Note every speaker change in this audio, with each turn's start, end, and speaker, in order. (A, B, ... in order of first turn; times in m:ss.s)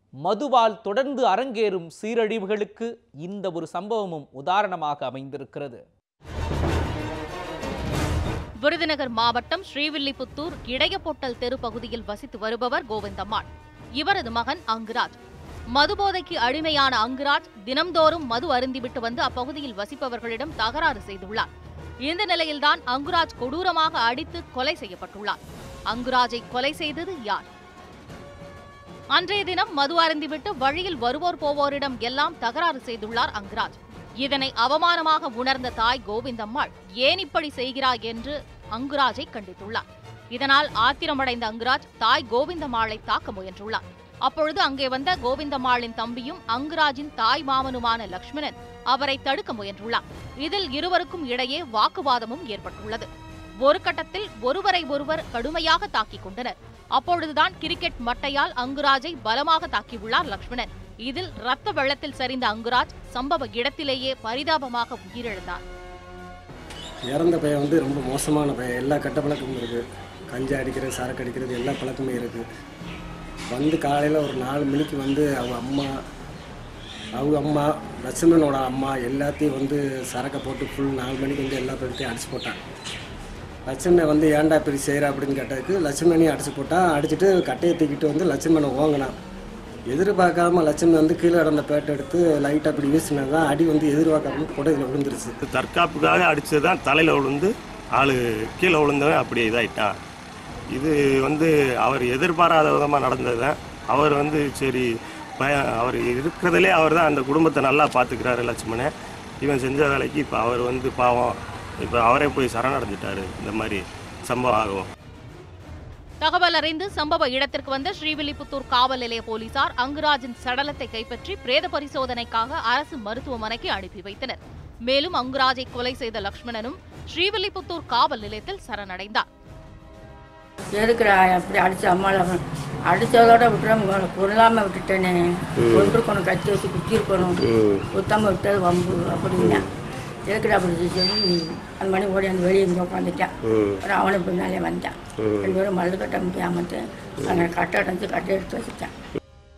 0:00.2-0:05.8 A
0:08.6-0:13.5 B
0:14.0-0:15.2 B
0:15.7-0:21.5 B
0:22.1-0:25.4 B
0:25.9-0:27.5 B
0:29.1-0:53.1 B
0:53.6-1:05.6 B
1:07.1-1:09.8 C
1:10.3-1:12.4 C
1:13.5-1:15.9 C
1:17.2-1:22.6 C
1:23.7-1:29.1 C
1:29.9-1:35.4 C
1:35.4-1:39.9 D
1:40.7-1:44.9 D
1:45.4-1:48.9 D
1:49.4-1:54.9 D
1:56.2-2:09.3 B
2:10.8-2:17.4 E
2:15.6-2:16.0 D
2:17.4-2:17.9 D
2:17.9-2:19.6 E
2:19.4-2:19.7 D
2:20.3-2:23.3 E
2:23.5-2:23.8 D
2:23.8-2:28.9 E
2:25.2-2:25.6 D